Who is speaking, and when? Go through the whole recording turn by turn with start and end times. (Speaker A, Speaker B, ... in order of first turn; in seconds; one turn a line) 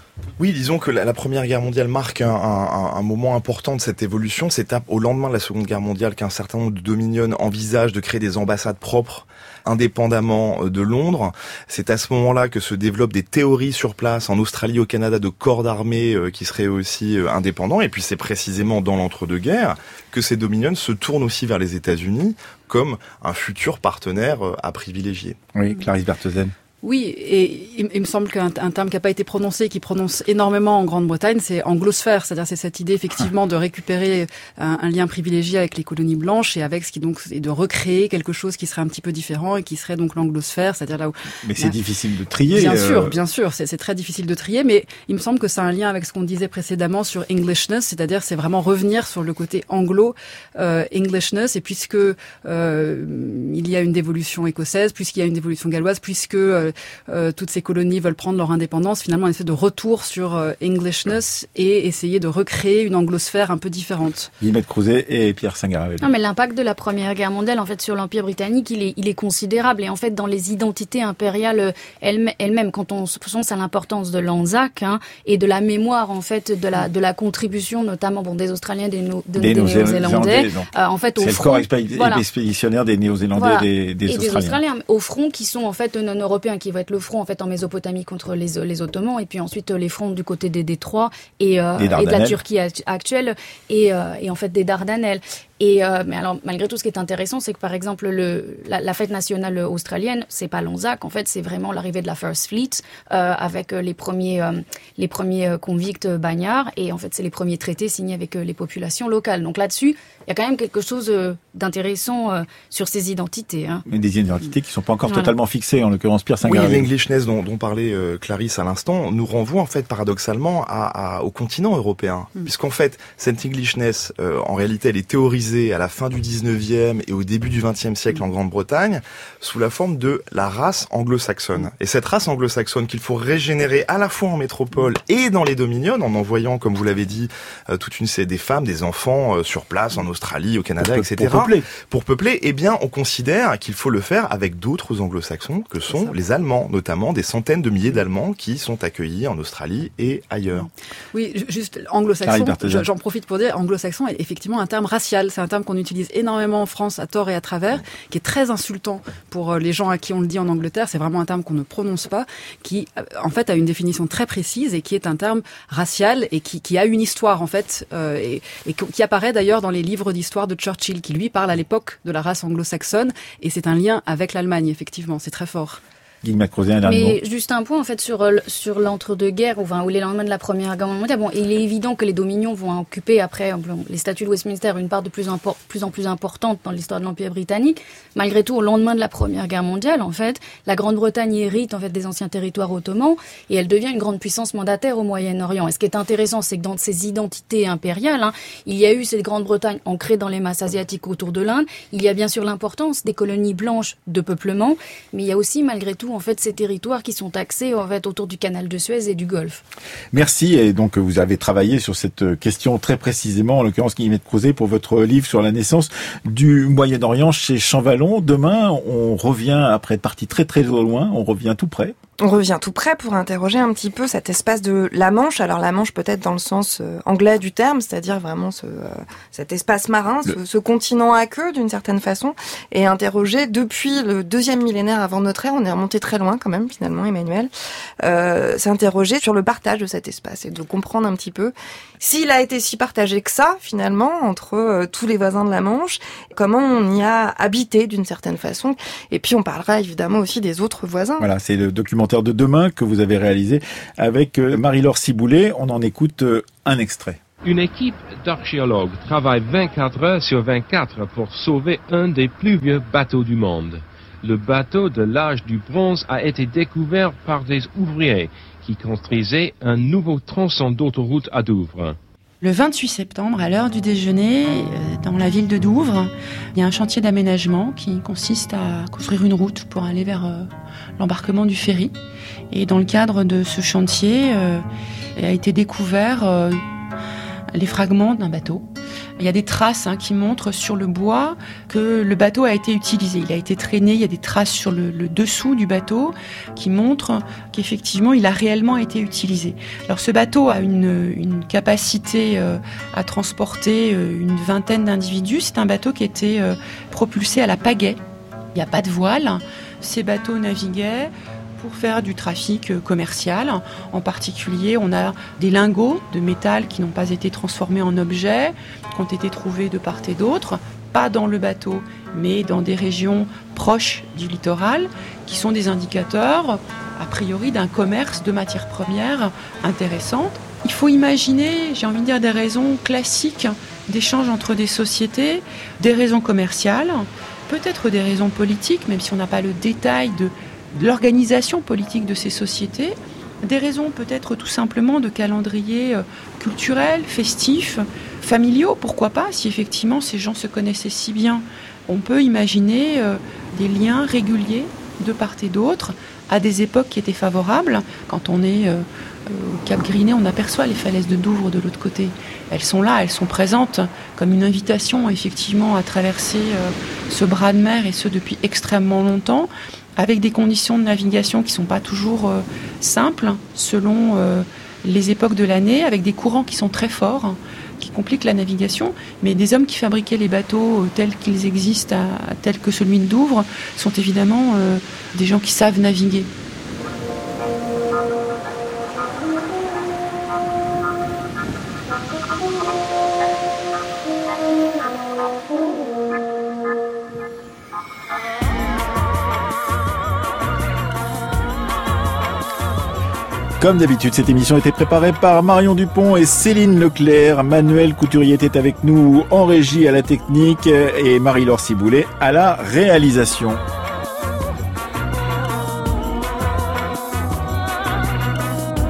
Speaker A: 0.4-25.4
Speaker B: 25.5-26.5
Speaker C: 26.8-41.7
Speaker B: 41.4-43.1
Speaker C: 42.5-64.3
Speaker B: 64.4-66.1
Speaker D: 66.0-82.2
Speaker B: 79.4-84.6
Speaker D: 83.3-113.8
Speaker B: 91.8-92.4
Speaker B: 113.8-116.9
Speaker A: 116.4-150.7
Speaker B: 140.8-141.7
Speaker C: 151.1-175.8
Speaker B: 152.2-152.8
Speaker B: 176.2-177.2
Speaker D: 176.8-209.6
Speaker B: 210.1-221.9
Speaker E: 222.2-237.5
Speaker E: 238.0-251.2
Speaker B: 251.2-257.2
Speaker F: 257.4-272.0
Speaker G: 272.4-281.9
Speaker G: 282.5-284.6
Speaker G: 285.1-286.6
Speaker G: 287.5-288.6
Speaker G: 289.2-308.0
Speaker G: 308.5-386.3
Speaker B: 403.6-413.6